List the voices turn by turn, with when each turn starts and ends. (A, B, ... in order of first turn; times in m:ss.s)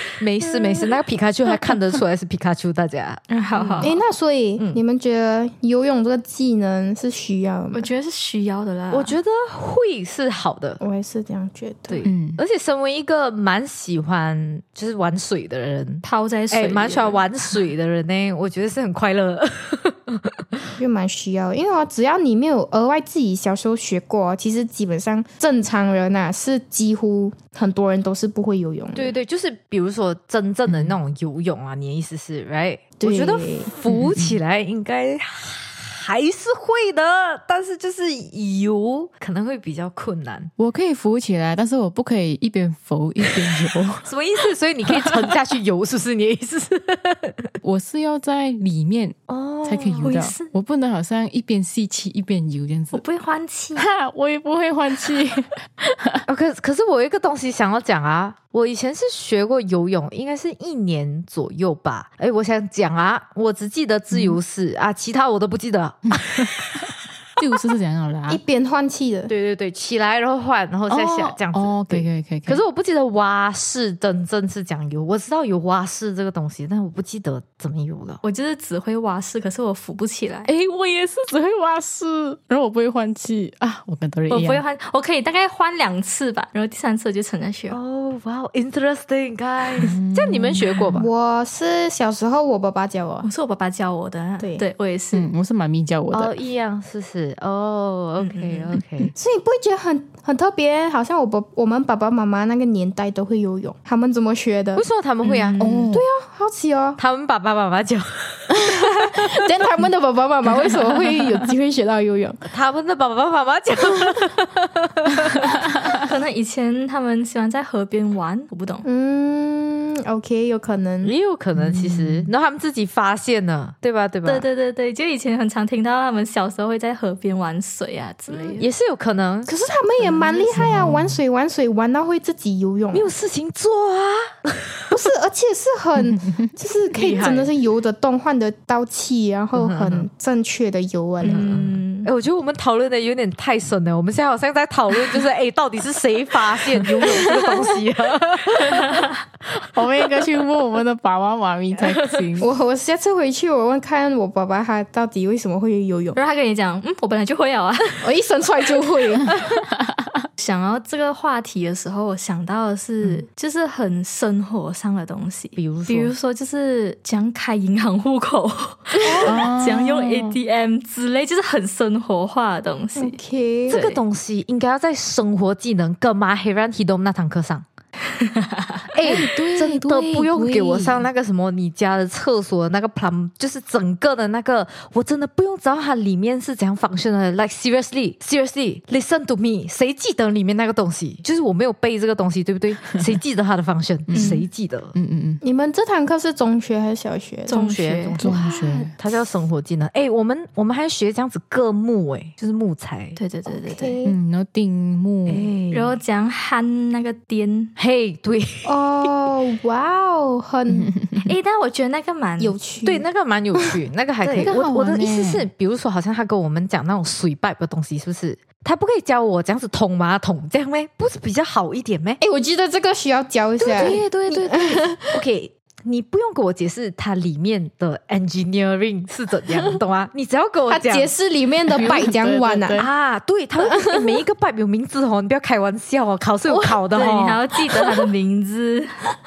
0:00.2-0:04.0 A
0:03.3-0:04.0 B
0:03.8-0:07.9 C
0:07.7-0:09.2 B
0:08.9-0:10.8 A
0:10.8-0:12.1 C
0:11.9-0:20.6 A
0:12.0-0:12.4 D
0:16.0-0:17.6 B
0:20.8-0:29.2 C
0:29.0-0:40.5 A
0:30.7-0:31.0 D
0:33.0-0:33.7 C
0:33.9-0:34.4 D
0:40.6-0:44.0 D
0:44.0-0:47.5 A
0:47.6-0:53.0 D
0:49.3-0:50.1 A
0:50.0-0:50.5 B
0:52.9-0:53.9 B
0:53.8-0:56.2 D
0:56.3-1:06.9 A
1:04.1-1:04.4 D
1:06.1-1:08.4 D
1:08.3-1:09.3 C
1:09.3-1:18.2 A
1:10.9-1:12.6 D
1:18.2-1:20.5 B
1:20.5-1:24.6 D
1:24.3-1:27.8 B
1:27.7-1:31.1 A
1:29.8-1:31.0 D
1:31.0-1:33.3 C
1:33.2-1:35.3 B
1:35.1-1:36.3 D
1:36.1-1:39.1 A
1:38.2-1:38.7 B
1:39.2-1:44.8 C
1:44.8-1:45.6 A
1:45.2-1:45.8 B
1:45.6-1:46.0 D
1:45.6-1:47.0 C
1:47.0-1:49.3 A
1:48.5-1:52.4 C
1:52.5-1:55.5 A
1:55.9-1:58.9 B
1:58.8-2:01.1 C
2:01.0-2:04.5 A
2:01.6-2:02.3 D
2:04.2-2:08.6 B
2:08.3-2:08.6 C
2:08.6-2:09.5 A
2:09.5-2:13.1 C
2:10.0-2:11.2 D
2:12.9-2:14.8 A
2:14.9-2:21.5 C
2:16.9-2:17.5 A
2:19.6-2:20.1 A
2:21.2-2:22.1 B
2:21.3-2:29.0 A
2:28.8-2:29.1 B
2:29.7-2:32.5 D
2:31.8-2:32.3 B
2:32.4-2:36.2 C
2:36.2-2:38.1 B
2:38.0-2:39.6 C
2:39.8-2:40.3 D
2:40.4-2:54.0 B
2:45.6-2:46.1 A
2:49.0-2:49.4 C
2:49.2-2:50.4 D
2:53.0-2:53.8 C
2:53.7-2:57.6 A
2:58.2-2:58.8 B
2:58.9-3:15.0 A
2:59.0-3:01.1 D
3:14.1-3:14.4 D
3:14.1-3:14.4 B
3:14.9-3:15.4 D
3:15.4-3:17.7 C
3:17.5-3:18.3 B
3:17.5-3:23.2 A
3:18.2-3:18.9 D
3:23.2-3:23.9 B
3:23.5-3:24.2 C
3:24.0-3:25.5 D
3:25.3-3:26.0 A
3:25.7-3:27.7 B
3:27.8-3:29.1 A
3:28.6-3:30.9 C
3:30.7-3:31.4 D
3:31.3-3:32.6 B
3:32.4-3:33.1 C
3:32.8-3:42.2 A
3:34.4-3:35.5 D
3:42.2-3:45.2 C
3:43.6-3:51.1 A
3:43.7-3:44.7 D
3:50.7-3:52.8 C
3:51.7-3:52.9 D
3:52.8-3:57.4 A
3:53.7-3:54.2 C
3:56.6-3:59.0 B